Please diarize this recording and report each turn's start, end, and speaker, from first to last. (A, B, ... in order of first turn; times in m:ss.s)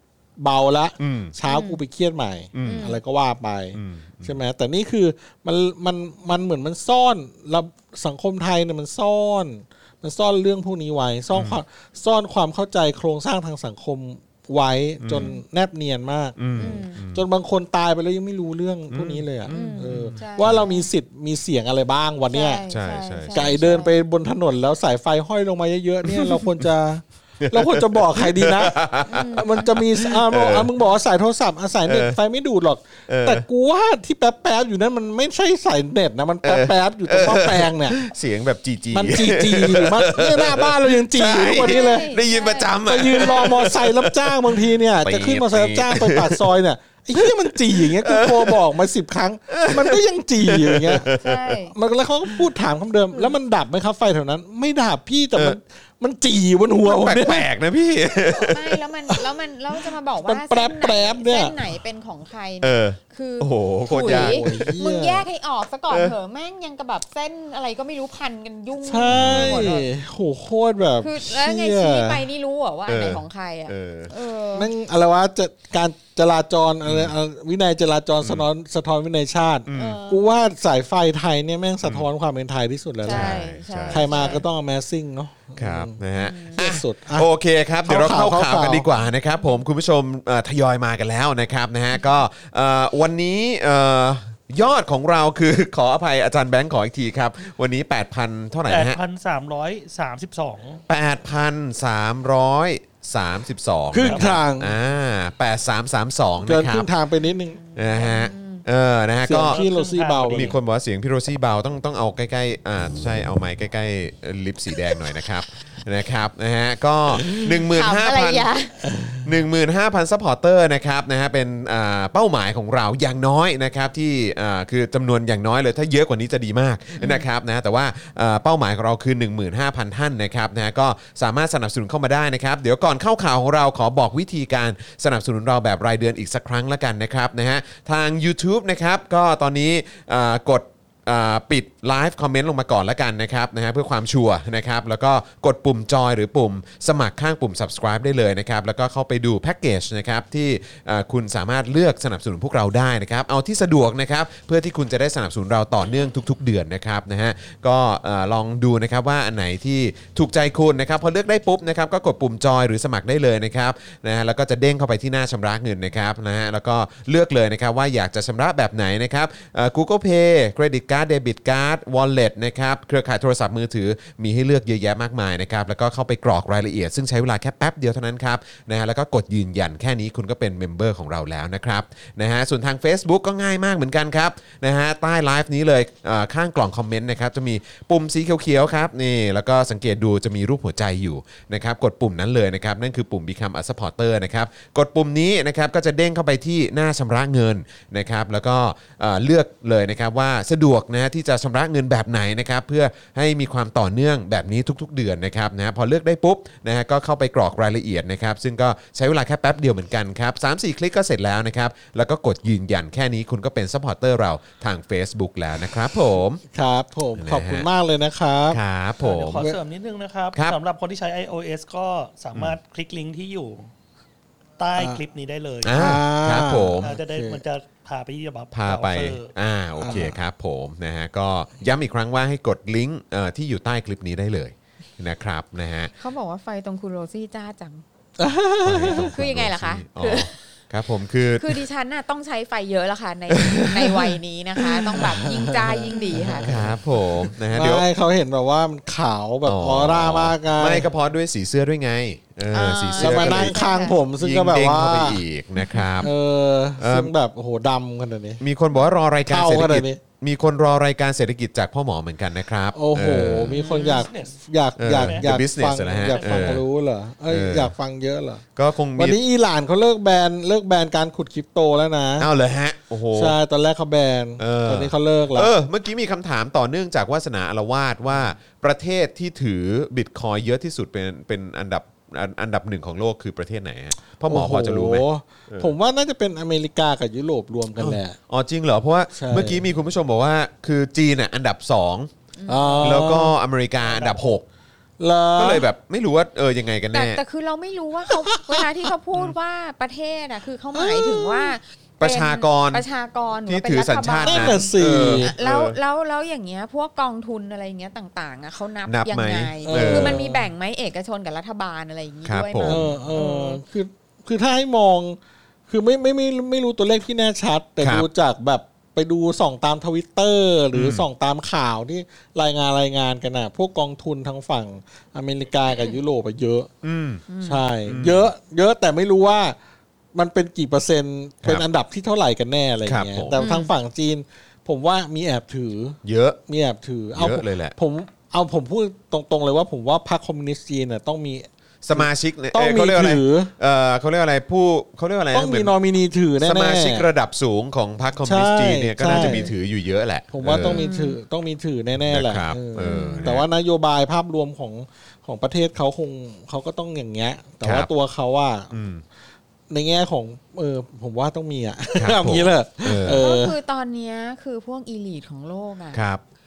0:00.4-0:22.6 A
0:01.0-0:01.3 B
0:01.4-0:01.8 C
0:02.5-0:02.9 B
0:02.6-0:03.0 C
0:03.7-0:04.4 B
0:15.0-0:15.3 B
0:15.1-0:15.4 C
0:16.4-0:17.2 B
0:16.6-0:17.0 C
0:18.9-0:20.7 B
0:19.5-0:20.9 C
0:22.3-0:24.0 C
0:22.7-0:23.8 B
0:23.3-0:38.0 A
0:26.1-0:26.6 B
0:27.4-0:30.7 B
0:29.1-0:29.7 C
0:31.9-0:32.2 B
0:33.1-0:33.4 B
0:36.4-0:46.5 B
0:38.9-0:42.1 A
0:41.5-0:43.6 C
0:42.9-0:51.1 A
0:47.2-0:48.6 B
0:49.5-0:51.5 B
0:51.1-0:51.8 C
0:51.7-0:57.5 A
0:56.8-0:58.8 B
0:58.2-1:09.9 C
1:00.2-1:01.6 A
1:02.6-1:04.7 B
1:03.9-1:05.3 A
1:05.9-1:06.2 B
1:08.8-1:12.2 A
1:09.1-1:09.7 B
1:11.0-1:14.7 C
1:12.9-1:14.1 B
1:14.5-1:26.0 A
1:16.8-1:17.1 B
1:18.2-1:18.5 B
1:19.7-1:20.0 B
1:19.8-1:20.4 C
1:23.0-1:24.4 C
1:23.1-1:24.4 B
1:25.6-1:39.0 B
1:26.2-1:26.6 C
1:26.5-1:27.3 A
1:27.8-1:28.9 A
1:29.4-1:29.6 C
1:38.7-1:40.8 D
1:40.9-1:46.9 B
1:43.9-1:44.7 A
1:44.0-1:44.3 D
1:46.4-1:47.6 A
1:47.6-1:48.6 C
1:47.8-1:49.6 B
1:49.2-1:50.6 A
1:49.3-1:50.6 D
1:50.3-1:58.5 B
1:57.5-1:58.8 C
1:58.8-1:59.3 A
1:59.2-3:36.4 B
2:07.0-2:07.3 C
3:36.5-3:38.6 A
3:37.2-3:37.7 B
3:38.5-3:39.5 B
3:39.0-3:43.7 D
3:40.3-3:40.6 B
3:44.6-3:45.9 D
3:44.8-3:45.0 A
3:45.6-3:46.9 B
3:45.7-3:47.4 A
3:46.8-3:49.3 D
3:48.5-3:55.9 B
3:49.8-3:50.2 A
3:56.0-3:57.8 C
3:58.2-3:59.1 A
3:58.6-4:01.6 B
3:58.9-4:00.4 C
4:01.4-4:06.5 C
4:04.7-4:10.9 A
4:06.4-4:07.9 B
4:09.5-4:13.6 B
4:12.5-4:14.0 C
4:13.0-4:15.2 A
4:14.2-4:16.1 B
4:15.6-4:16.1 C
4:16.0-4:18.4 A
4:16.8-4:17.1 B
4:18.4-4:23.6 B
4:19.3-4:20.0 A
4:22.7-4:28.4 A
4:23.6-4:24.4 D
4:23.6-4:24.1 C
4:24.8-4:26.6 B
4:24.9-4:25.3 D
4:26.0-4:26.6 D
4:27.3-4:27.7 B
4:28.6-4:29.2 B
4:29.0-4:32.3 A
4:32.2-4:33.4 B
4:33.1-4:35.5 A
4:34.4-4:45.7 B
4:44.3-4:48.2 A
4:47.8-4:52.1 B
4:49.1-4:49.6 A
4:52.4-4:53.1 C
4:52.5-4:53.4 A
4:52.8-4:54.4 B
4:55.0-4:55.7 A
4:55.4-4:57.2 B
4:56.9-5:13.6 C
4:58.1-4:58.9 A
5:00.7-5:01.6 A
5:02.0-5:02.8 B
5:03.5-5:05.8 B
5:04.2-5:05.3 A
5:08.9-5:10.2 B
5:09.6-5:10.5 A
5:12.3-5:12.8 B
5:12.6-5:15.2 A
5:15.7-5:26.7 A
5:17.8-5:18.1 B
5:20.7-5:21.1 B
5:26.8-5:27.2 B
5:27.3-5:27.6 C
5:27.4-5:29.6 A
5:27.8-5:28.3 B
5:30.1-5:43.5 A
5:32.9-5:33.4 B
5:33.3-5:33.7 C
5:36.0-5:36.4 B
5:37.1-5:37.8 B
5:41.8-5:45.7 B
5:45.3-5:47.1 A
5:46.4-5:50.8 B
5:48.2-5:49.5 A
5:49.1-5:49.5 C
5:50.3-5:58.7 A
5:50.6-5:51.2 C
5:52.0-5:53.4 B
5:52.8-5:53.3 C
5:57.6-5:57.9 B
5:58.7-5:59.0 B
5:59.7-6:03.6 A
6:02.0-6:03.2 B
6:03.0-6:06.0 C
6:05.9-6:06.2 B